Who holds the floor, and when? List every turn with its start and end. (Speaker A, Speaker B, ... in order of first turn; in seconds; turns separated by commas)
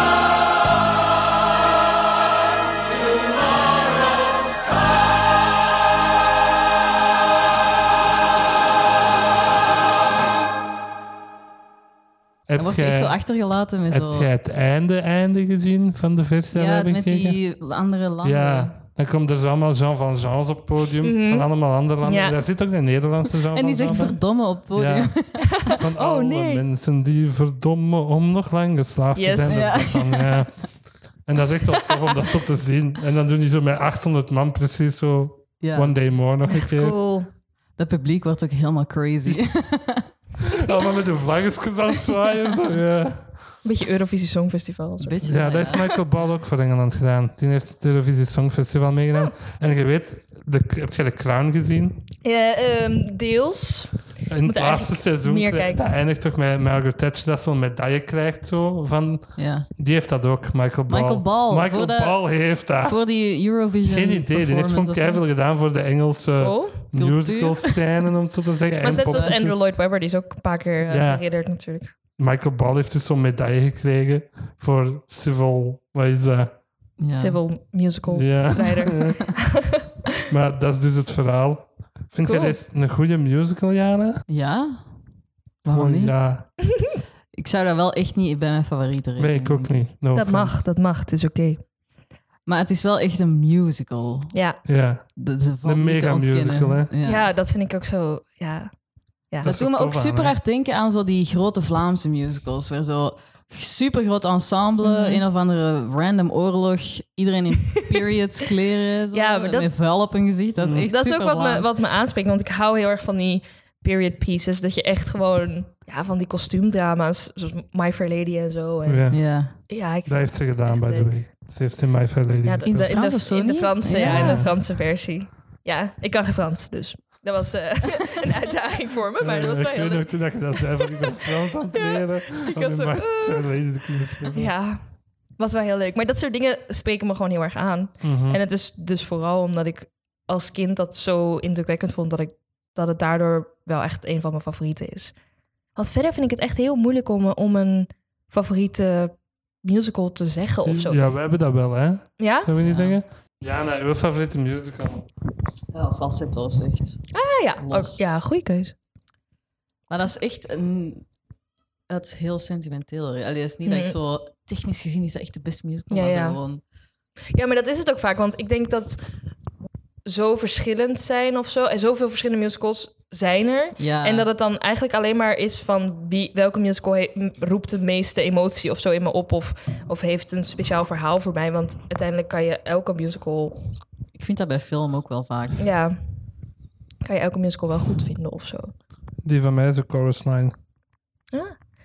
Speaker A: 12.5-13.2, Speaker B: 12.6-14.3, Speaker A: 13.9-17.4, Speaker B: 16.5-18.7, Speaker A: 18.2-37.0, Speaker C: 21.0-22.4, Speaker B: 23.5-25.8, Speaker C: 25.4-26.6, Speaker C: 29.1-30.1, Speaker B: 29.5-30.3, Speaker B: 35.6-36.0, Speaker C: 36.5-37.3, Speaker B: 37.8-40.1, Speaker A: 40.5-43.4, Speaker C: 43.6-45.6, Speaker B: 45.0-45.9, Speaker A: 45.2-52.0, Speaker C: 52.2-55.8, Speaker A: 54.3-63.0, Speaker B: 59.4-59.7, Speaker B: 60.9-65.2, Speaker A: 63.8-69.6, Speaker C: 66.4-66.8, Speaker B: 66.9-68.0, Speaker C: 68.8-71.9, Speaker B: 68.9-69.4, Speaker A: 70.9-71.2, Speaker A: 72.2-76.6, Speaker B: 77.0-77.4, Speaker C: 77.2-79.8, Speaker A: 78.1-79.2, Speaker B: 78.5-79.2, Speaker A: 80.3-84.2, Speaker C: 82.2-82.6, Speaker B: 84.3-84.9, Speaker B: 85.6-86.2, Speaker A: 85.7-86.5, Speaker B: 87.3-89.9, Speaker A: 89.2-90.6, Speaker C: 90.1-91.6, Speaker B: 92.5-94.3, Speaker C: 94.3-94.6, Speaker A: 94.7-96.9, Speaker B: 95.2-97.3, Speaker C: 97.0-98.7, Speaker A: 99.4-100.4, Speaker B: 99.4-111.7, Speaker C: 104.8-105.2, Speaker C: 109.1-109.7, Speaker A: 110.6-110.9, Speaker C: 110.9-121.2, Speaker A: 118.9-123.0, Speaker B: 119.1-119.5, Speaker C: 122.5-133.5, Speaker B: 122.6-124.5, Speaker A: 124.0-124.5, Speaker A: 129.2-134.5, Speaker C: 134.3-134.8, Speaker C: 135.4-145.1, Speaker A: 138.0-138.4, Speaker C: 145.8-151.0, Speaker A: 150.7-155.1, Speaker C: 152.2-152.5, Speaker B: 152.6-153.0, Speaker B: 155.7-157.1, Speaker C: 157.1-158.7, Speaker B: 157.6-158.0, Speaker B: 159.9-161.1, Speaker B: 161.9-166.6, Speaker C: 163.7-164.0, Speaker C: 165.9-166.4, Speaker C: 167.3-169.0, Speaker C: 170.1-183.6, Speaker B: 173.8-174.3, Speaker B: 184.2-185.6, Speaker C: 185.6-186.0, Speaker C: 187.0-188.7, Speaker A: 189.2-190.6, Speaker C: 191.3-191.6